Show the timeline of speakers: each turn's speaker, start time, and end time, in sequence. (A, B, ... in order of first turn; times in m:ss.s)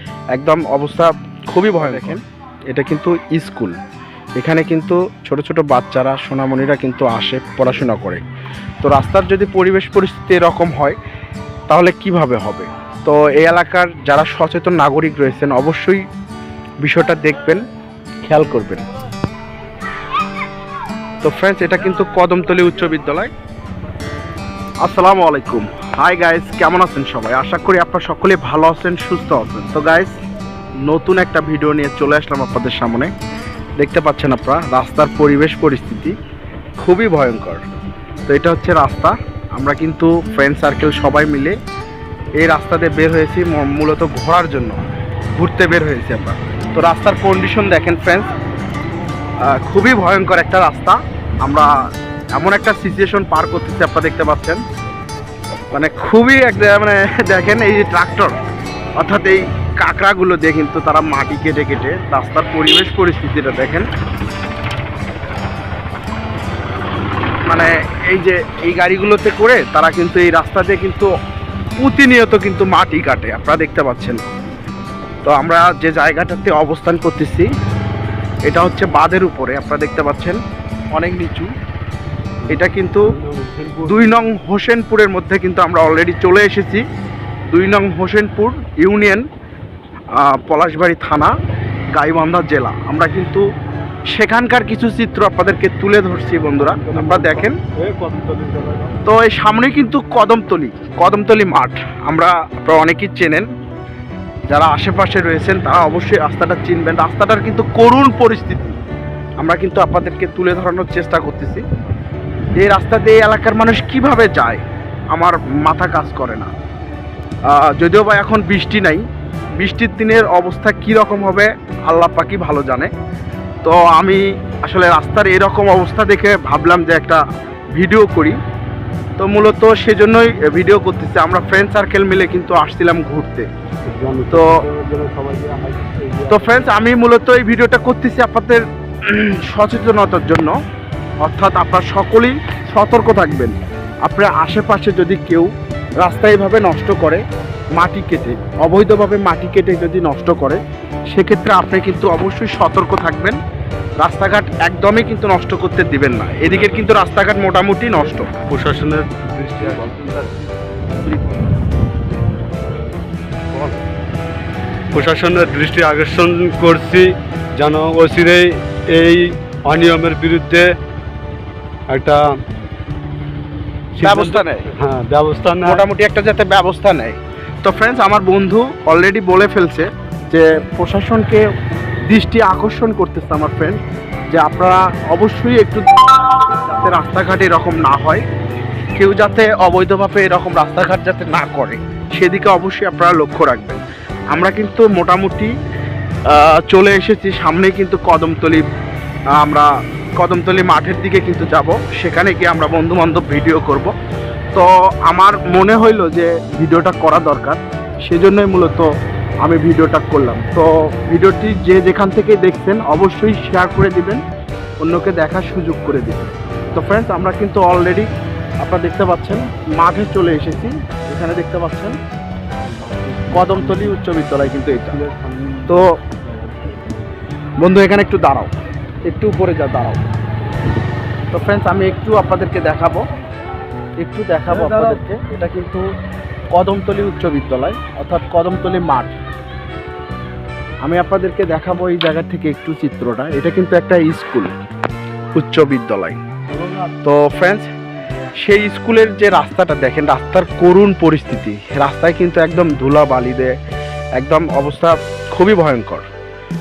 0:00.3-0:03.8 A
0:01.8-0:02.2 B
0:04.4-0:08.2 A
0:08.8-0:11.0 A
0:11.7-0:16.0 A
0:16.8-0:17.6 A
0:18.2-0:18.8 A
0:21.2-0:23.3 A
0:24.8-0:30.2 A
0:30.8-0:33.1 A
0:33.8-0:36.1 A
0:36.8-0:37.6 A
0:38.3-0:41.6 A
0:42.4-0:48.3 A
0:49.4-0:51.7 A
0:52.3-0:54.6 A
0:55.7-0:58.3 A
0:59.0-1:03.9 A
1:07.5-1:11.1 A
1:11.8-1:14.3 A
1:15.2-1:17.5 A
1:18.5-1:20.4 A
1:20.9-1:21.5 A
1:22.4-1:24.1 B
1:22.5-1:23.1 A
1:23.9-1:26.8 A
1:27.5-1:29.2 A
1:30.1-1:31.3 A
1:31.9-1:33.4 A
1:34.1-1:37.6 A
1:36.6-1:39.0 B
1:39.0-1:43.5 A
1:44.5-1:48.8 A
1:49.4-1:51.6 A
1:52.6-1:56.5 A
1:57.5-1:59.0 A
1:59.6-2:02.9 A
2:03.6-2:07.2 A
2:07.8-2:08.4 A
2:09.2-2:13.5 A
2:13.9-2:16.7 B
2:14.3-2:14.6 A
2:16.3-2:20.5 A
2:21.2-2:25.5 A
2:26.0-2:27.2 A
2:27.8-2:30.6 A
2:31.1-2:33.4 A
2:34.0-2:38.4 A
2:36.4-2:37.3 B
2:37.8-2:41.3 B
2:43.5-2:43.8 B
2:44.9-2:50.7 B
2:51.9-2:52.3 B
2:53.9-2:55.8 B
2:54.0-2:54.7 A
2:55.6-3:01.4 A
3:02.1-3:03.8 A
3:04.3-3:08.2 A
3:09.0-3:13.8 A
3:14.3-3:15.5 A
3:16.3-3:18.6 A
3:19.4-3:23.9 A
3:24.5-3:28.9 A
3:29.4-3:34.2 A
3:34.8-3:38.1 A
3:38.6-3:42.0 A
3:42.7-3:44.0 B
3:43.3-3:45.0 A
3:44.6-3:46.8 B
3:45.7-3:45.9 A
3:47.6-3:48.5 A
3:49.0-3:50.0 A
3:51.3-3:53.0 A
3:54.0-3:55.9 A
3:54.5-3:55.0 B
3:56.5-3:59.2 A
4:00.8-4:04.5 A
4:05.3-4:06.2 A
4:07.0-4:07.7 A
4:08.4-4:13.5 A
4:14.2-4:16.0 A